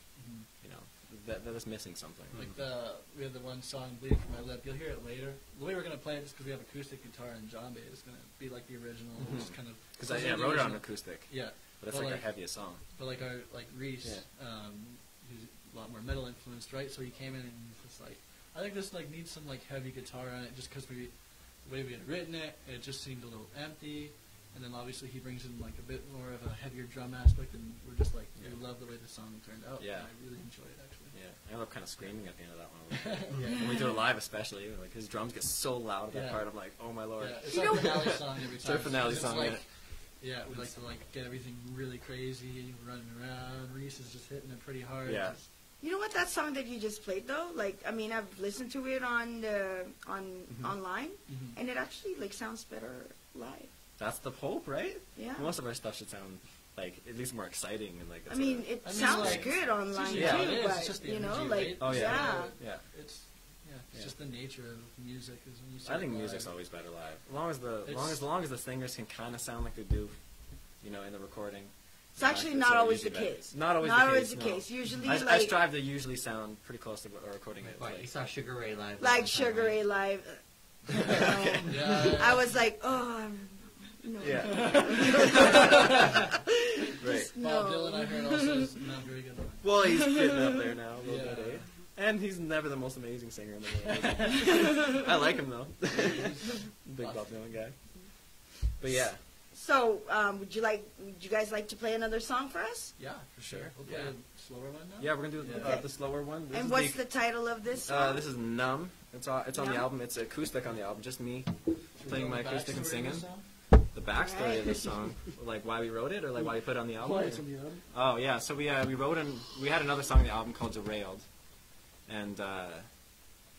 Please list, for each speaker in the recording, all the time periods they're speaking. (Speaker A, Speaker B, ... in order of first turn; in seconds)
Speaker A: 0.1-0.5, 2.3-31.2, 33.0-33.8, 36.1-45.5, 51.3-51.6, 58.8-66.5, 67.8-68.2, 81.2-82.4, 84.5-86.0, 87.4-89.7, 91.0-91.7, 94.0-94.4, 95.9-97.6, 103.0-105.8, 111.9-113.5, 116.3-117.8
Speaker B: 0.6-2.5, 9.2-12.8, 28.4-28.6, 29.8-30.4, 31.1-40.8, 45.0-45.4, 50.5-50.8, 54.0-60.7, 61.8-62.9, 65.8-78.1, 81.1-81.9, 84.2-86.2, 87.0-87.3, 89.6-99.2, 103.4-104.1, 105.0-107.1, 107.8-123.2
Speaker C: 2.3-2.6, 77.7-79.8
Speaker D: 37.5-38.2, 45.8-53.7, 55.1-55.5, 58.3-62.5, 72.2-75.6, 79.0-86.4, 87.0-88.6, 99.2-103.0, 105.5-108.2, 109.5-109.9, 114.1-115.2